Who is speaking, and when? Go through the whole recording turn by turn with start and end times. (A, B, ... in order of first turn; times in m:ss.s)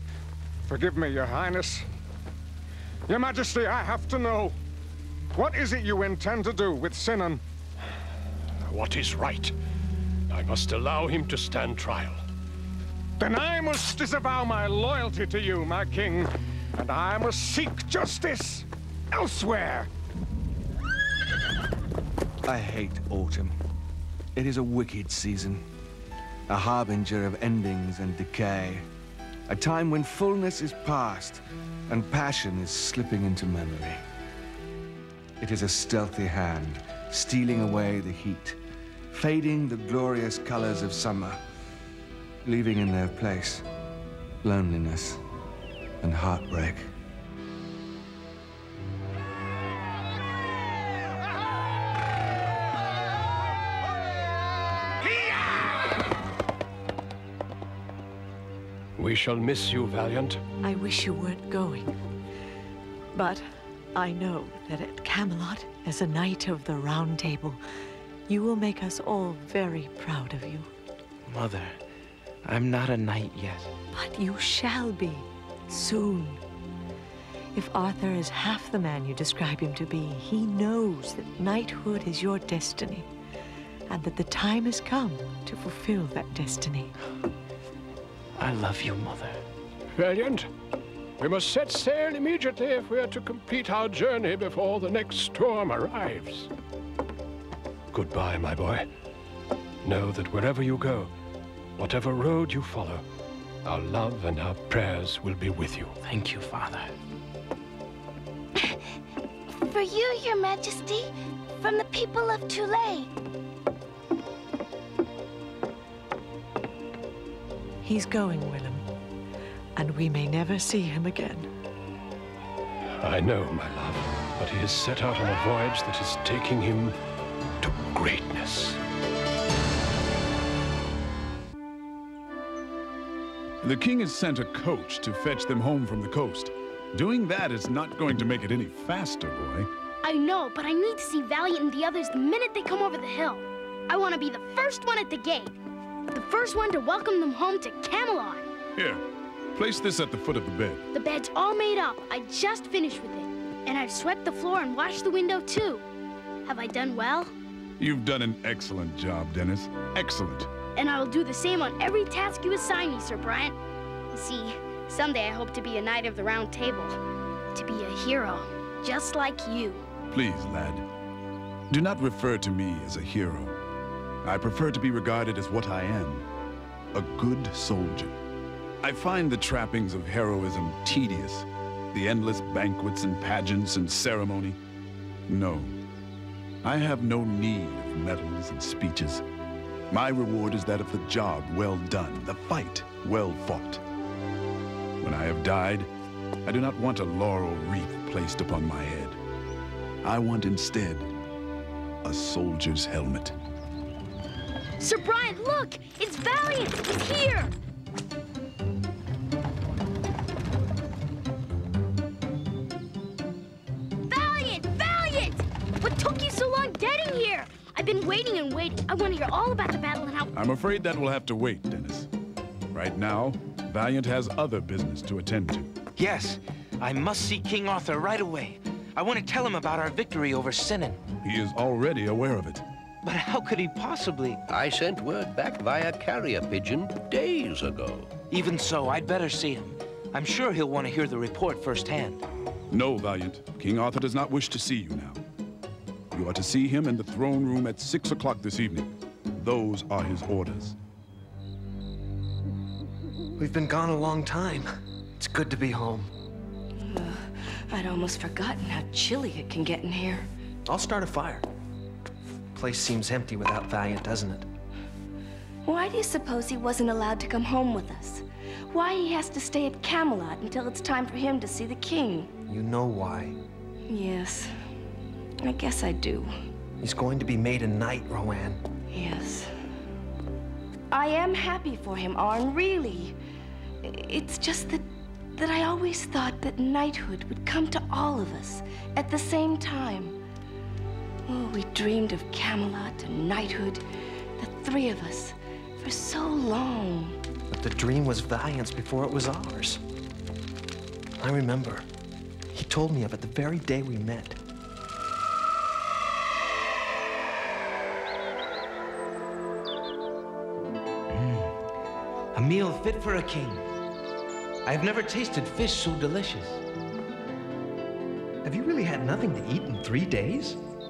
0:00.6-0:01.8 A
0:03.1-0:04.6 A
0:05.3-0:07.4 A
0:08.6-0:09.5 B
0:10.3-0:12.2 B
0:13.2-0:19.9 A
0:22.4-0:23.5 C
0:24.4-0:25.6 C
0:26.5-0:28.8 C
0:29.5-0:34.0 C
0:35.4-0:38.6 C
0:39.1-0:41.4 C
0:42.4-0:43.6 C
0:44.4-0:45.2 C
0:46.0-0:46.9 C
0:59.0-1:00.4 B
1:00.6-1:01.9 D
1:03.1-1:07.6 D
1:08.3-1:10.7 D
1:11.2-1:11.8 E
1:12.4-1:13.7 E
1:13.9-1:16.4 D
1:17.5-1:23.1 D
1:23.9-1:26.9 D
1:28.4-1:29.4 E
1:29.9-1:30.5 B
1:31.2-1:36.5 B
1:37.9-1:38.9 B
1:39.8-1:41.1 B
1:41.8-1:43.0 B
1:43.6-1:45.9 B
1:46.0-1:46.9 E
1:49.5-1:53.1 F
1:57.8-1:58.8 D
1:59.8-2:01.5 D
2:02.8-2:06.9 B
2:07.6-2:08.8 B
2:13.6-2:19.7 G
2:20.0-2:25.5 H
2:26.1-2:28.5 H
2:28.8-2:29.0 G
2:29.5-2:30.8 G
2:30.9-2:35.8 H
2:36.4-2:37.3 H
2:37.8-2:40.5 G
2:40.8-2:43.6 H
2:44.1-2:47.0 H
2:47.5-2:49.8 H
2:50.1-2:50.8 G
2:51.7-2:53.6 G
2:54.2-2:56.2 G
2:56.9-2:58.1 G
2:58.8-3:04.6 G
3:05.3-3:05.7 G
3:06.6-3:09.2 G
3:09.9-3:13.8 G
3:15.0-3:15.9 G
3:16.4-3:19.2 G
3:20.0-3:21.1 G
3:22.0-3:23.3 G
3:24.8-3:27.5 H
3:34.1-3:40.3 H
3:40.3-3:42.1 G
3:42.7-3:45.7 G
3:46.0-3:51.0 E
3:51.2-3:52.6 G
3:53.0-3:54.4 E
3:54.5-3:58.1 I
3:58.3-4:02.2 E
4:02.7-4:05.2 G
4:06.1-4:10.7 G
4:13.4-4:16.1 J
4:16.8-4:20.3 F
4:20.6-4:21.4 J
4:22.5-4:24.5 J
4:25.6-4:32.3 F
4:32.5-4:33.4 J
4:33.9-4:34.6 F
4:35.4-4:36.3 F
4:36.8-4:38.6 J
4:38.9-4:39.5 F
4:40.9-4:43.2 F
4:43.8-4:50.2 F
4:51.3-4:53.8 F
4:54.4-4:57.2 F
4:57.5-4:59.8 J
5:01.2-5:01.9 J
5:02.5-5:04.4 J
5:11.1-5:11.6 E
5:12.3-5:13.7 E
5:14.6-5:16.6 E
5:18.4-5:20.6 J